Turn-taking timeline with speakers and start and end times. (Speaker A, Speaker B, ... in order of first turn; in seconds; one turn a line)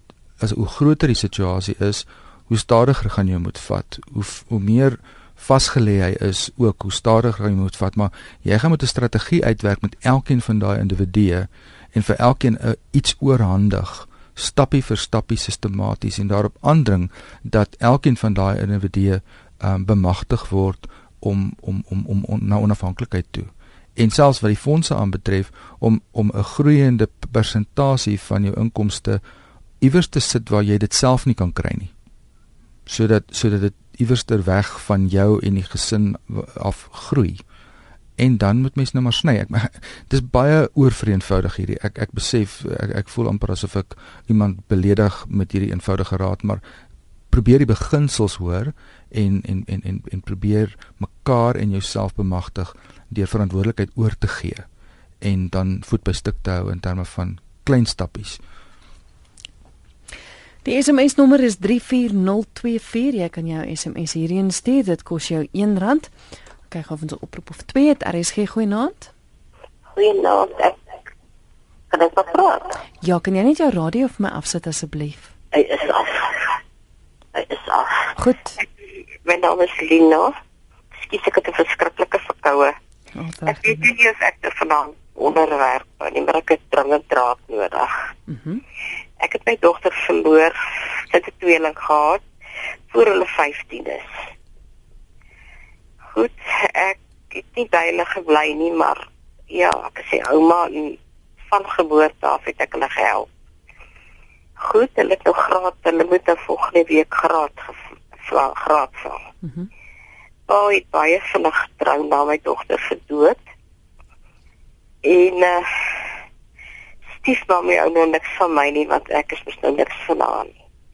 Speaker A: 0.4-29.2
Speaker A: 29.8-31.9
Speaker A: 32.9-37.4
Speaker A: 38.2-46.6
Speaker A: 47.3-54.6
Speaker A: 55.2-58.4
Speaker B: 60.6-66.1
Speaker B: 66.7-69.1
Speaker C: 69.9-70.8
Speaker C: 71.9-72.7
Speaker B: 73.0-75.3
Speaker C: 75.5-76.5
Speaker C: 77.3-78.1
Speaker B: 78.2-78.6
Speaker C: 79.2-80.3
Speaker C: 81.0-82.7
Speaker B: 83.1-83.9
Speaker C: 83.5-87.9
Speaker B: 88.3-88.6
Speaker C: 89.2-92.2
Speaker C: 92.9-94.1
Speaker C: 96.1-101.0
Speaker C: 101.5-103.3
Speaker C: 104.6-109.2
Speaker C: 110.5-113.4
Speaker C: 115.0-115.7
Speaker C: 117.2-120.6